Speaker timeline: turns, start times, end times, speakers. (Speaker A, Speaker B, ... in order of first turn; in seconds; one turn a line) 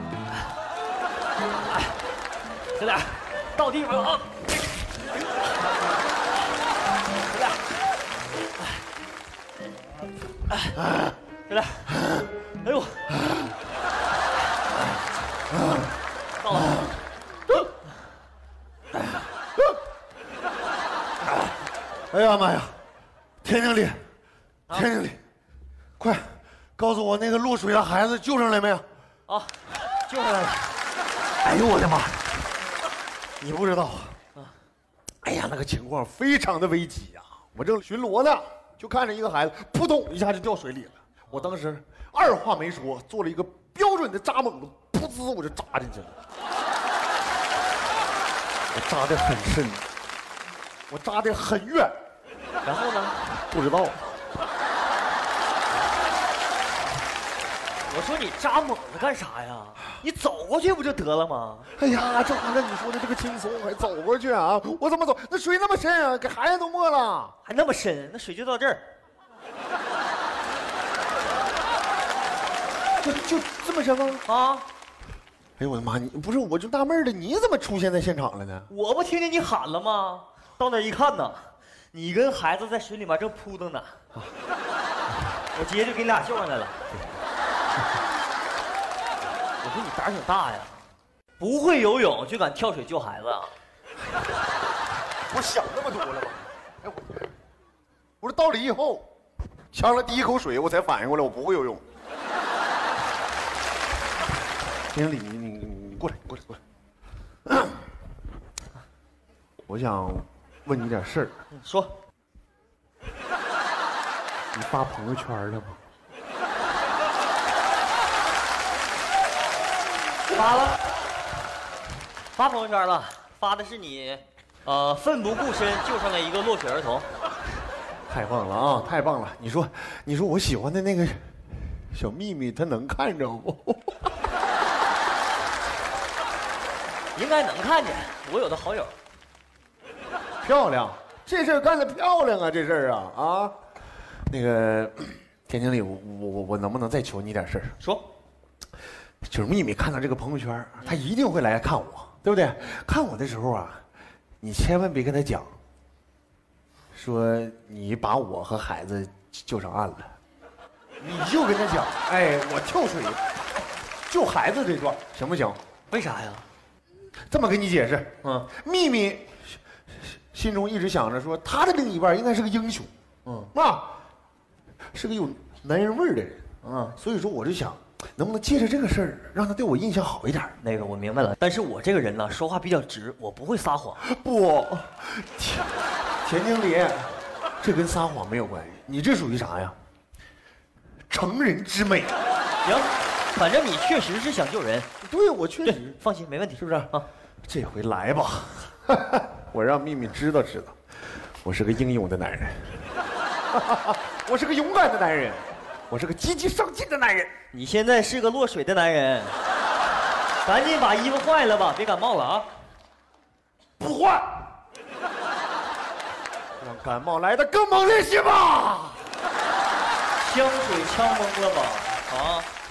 Speaker A: 1.7-2.0
Speaker A: 2.8-4.4
Speaker A: 7.3-7.6
Speaker A: 10.5-10.8
Speaker B: 10.8-11.1
Speaker A: 11.5-13.1
Speaker B: 11.9-12.3
Speaker B: 13.2-13.5
Speaker B: 15.5-16.0
Speaker A: 16.4-16.8
Speaker B: 16.5-17.0
Speaker B: 22.1-22.8
Speaker B: 23.4-24.0
Speaker B: 24.7-25.2
Speaker B: 26.0-28.9
Speaker A: 29.3-30.8
Speaker B: 31.4-32.4
Speaker B: 33.4-34.2
Speaker B: 35.2-46.2
Speaker B: 48.7-49.9
Speaker B: 50.9-52.0
Speaker A: 52.6-53.4
Speaker B: 53.5-54.2
Speaker A: 57.9-61.7
Speaker B: 61.8-67.3
Speaker A: 67.5-68.9
Speaker B: 73.0-74.2
Speaker A: 74.3-74.7
Speaker B: 75.6-78.7
Speaker A: 78.7-84.0
Speaker A: 85.5-86.8
Speaker A: 89.6-90.8
Speaker A: 91.4-93.5
Speaker B: 95.3-97.2
Speaker B: 98.2-99.1
Speaker B: 99.7-101.8
Speaker B: 104.9-106.6
Speaker B: 107.5-107.8
Speaker B: 109.7-111.3
Speaker A: 111.5-112.0
Speaker B: 114.5-115.8
Speaker A: 120.3-120.8
Speaker A: 122.3-127.1
Speaker B: 128.1-134.0
Speaker A: 137.2-138.9
Speaker B: 140.4-143.6
Speaker B: 144.3-147.8
Speaker A: 147.8-148.1
Speaker B: 149.2-153.8
Speaker B: 154.4-155.6
Speaker B: 156.9-160.2
Speaker B: 161.0-163.2
Speaker B: 164.1-165.6
Speaker A: 165.9-166.4
Speaker B: 167.3-174.0
Speaker B: 174.9-180.6
Speaker A: 180.6-184.0
Speaker B: 184.0-189.8
Speaker B: 191.1-192.2
Speaker A: 192.6-194.9
Speaker B: 195.0-196.0
Speaker A: 195.7-197.1
Speaker B: 196.6-202.9
Speaker B: 203.5-207.3
Speaker A: 207.5-209.4
Speaker A: 210.4-212.5
Speaker B: 213.8-214.5
Speaker B: 216.6-219.1
Speaker A: 220.2-222.5